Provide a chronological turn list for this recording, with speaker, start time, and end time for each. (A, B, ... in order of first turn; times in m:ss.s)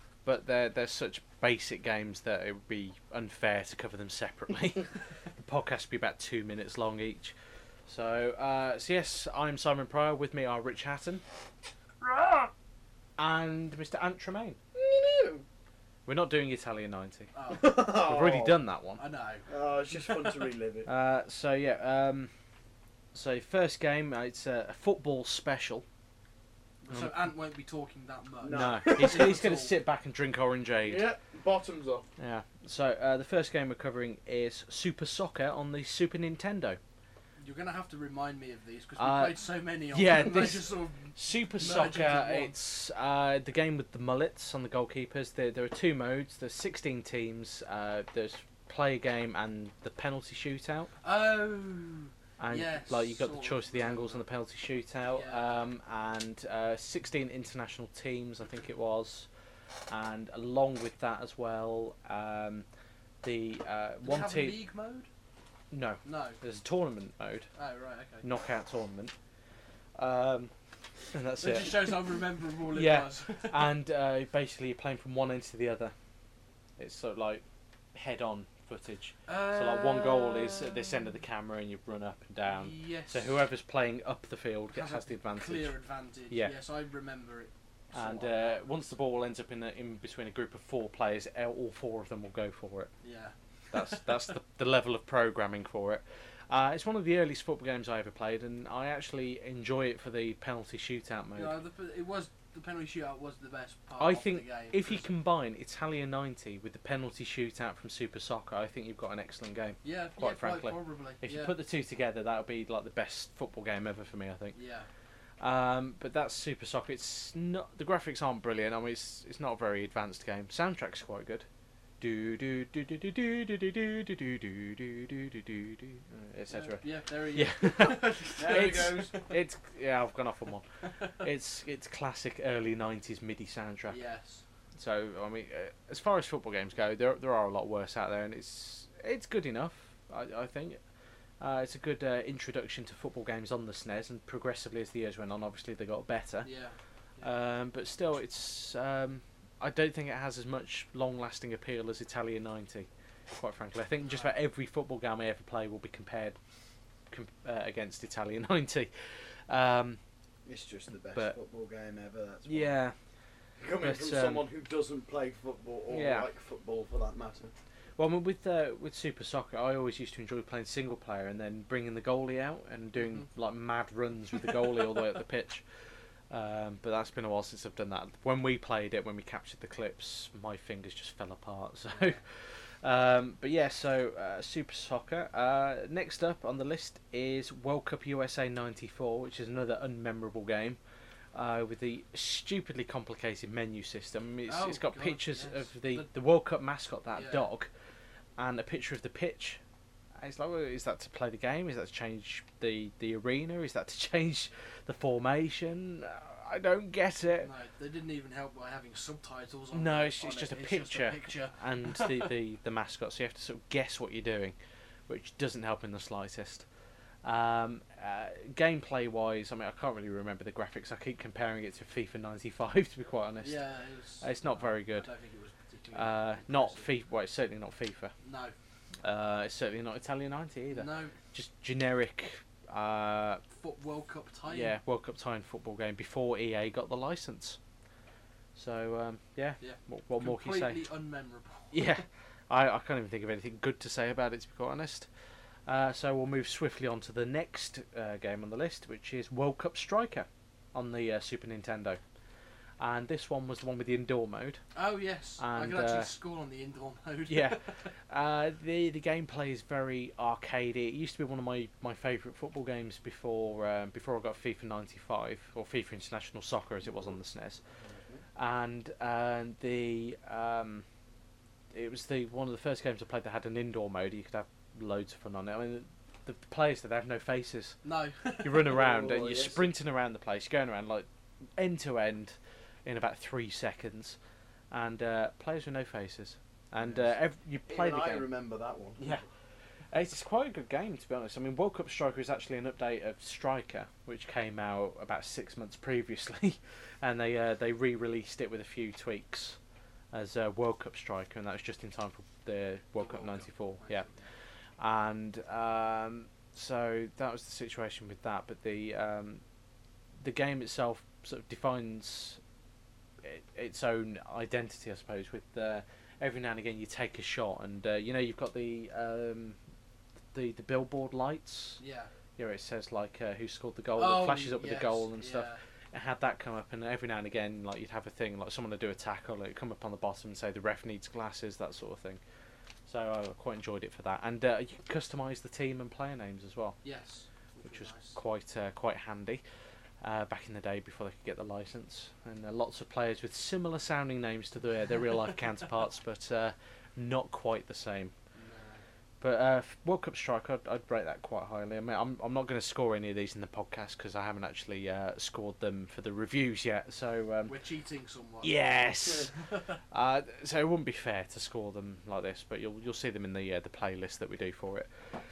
0:00.2-0:07.4 A
0:07.9-0:11.2 A
0:12.0-0:12.5 B
0:13.2-0:14.6 A
0:14.8-0:15.4 B
0:16.1-0:17.3 A
0:17.3-0:18.1 C
0:17.5-0:18.6 B
0:17.8-0:19.0 A
0:19.0-0:19.5 C
0:19.5-0:20.9 B
0:20.8-0:22.3 A
0:23.1-0:25.8 A
0:26.8-0:29.8 C
0:26.9-0:27.2 A
0:28.4-0:29.4 B
0:28.5-0:31.1 A
0:30.8-0:32.0 B
0:32.2-0:36.8 A
0:37.4-0:42.6 C
0:39.0-0:39.4 A
0:39.9-0:50.9 A
0:51.0-0:54.2 C
0:52.4-0:59.3 A
0:55.1-0:55.7 C
0:59.9-1:02.7 A
1:03.2-1:04.6 A
1:04.0-1:05.1 C
1:05.7-1:07.5 A
1:06.0-1:06.4 C
1:07.6-1:08.2 C
1:08.2-1:09.1 A
1:10.0-1:10.5 A
1:11.1-1:12.1 A
1:11.4-1:13.8 C
1:12.7-1:15.9 A
1:16.8-1:17.4 A
1:18.0-1:25.8 A
1:19.3-1:21.1 C
1:22.4-1:23.5 C
1:24.7-1:28.6 C
1:27.9-1:32.9 A
1:33.0-1:34.3 C
1:33.7-1:41.6 A
1:41.4-1:45.1 C
1:44.0-1:54.6 A
1:49.8-1:51.6 C
1:54.5-1:54.9 C
1:55.4-2:01.4 A
2:02.0-2:14.0 A
2:06.5-2:09.4 C
2:08.4-2:09.1 B
2:10.8-2:11.2 C
2:13.9-2:14.4 C
2:14.8-2:20.8 A
2:21.4-2:26.5 A
2:26.4-2:27.3 C
2:27.2-2:36.4 A
2:34.0-2:34.3 C
2:37.1-2:38.9 A
2:39.5-2:40.0 A
2:40.5-2:42.8 B
2:42.4-2:43.0 A
2:43.6-2:47.5 B
2:43.7-2:44.5 A
2:45.9-2:46.3 A
2:48.0-2:55.6 A
2:53.0-2:53.2 C
2:56.3-3:10.8 A
3:11.4-3:17.7 A
3:14.5-3:16.1 C
3:17.1-3:17.5 C
3:18.4-3:19.6 A
3:20.2-3:27.5 A
3:27.4-3:32.4 C
3:29.7-3:34.6 A
3:35.1-3:36.7 A
3:37.2-3:43.7 A
3:43.4-3:46.9 C
3:44.2-3:45.1 A
3:45.9-3:48.1 A
3:48.2-3:48.6 C
3:49.0-3:53.4 A
3:50.7-3:51.2 C
3:53.4-3:54.8 C
3:54.5-3:57.6 A
3:58.6-4:00.9 A
3:59.6-4:02.0 C
4:01.7-4:05.1 A
4:05.7-4:12.0 A
4:12.8-4:14.6 A
4:14.8-4:17.9 C
4:15.4-4:16.1 A
4:17.3-4:27.6 A
4:27.8-4:28.2 B
4:28.4-4:30.8 A
4:31.7-4:37.8 A
4:37.8-4:38.8 C
4:38.4-4:41.1 A
4:38.7-4:39.7 B
4:41.6-4:44.2 A
4:44.7-4:48.3 A
4:46.8-4:47.1 B
4:47.7-4:49.2 B
4:49.0-4:49.2 A
4:49.9-4:59.6 A
5:00.1-5:04.1 A
5:03.0-5:04.3 C
5:04.8-5:09.4 A
5:10.2-5:12.4 A
5:13.2-5:19.6 A
5:20.3-5:21.8 A
5:21.8-5:22.1 C
5:22.4-5:32.2 A
5:24.0-5:25.6 C
5:32.9-5:36.8 A
5:36.8-5:38.2 C
5:37.6-5:39.4 A
5:40.0-5:48.1 A
5:48.3-5:48.8 C
5:49.2-5:57.5 A
5:57.5-5:58.7 C
5:58.4-6:04.9 A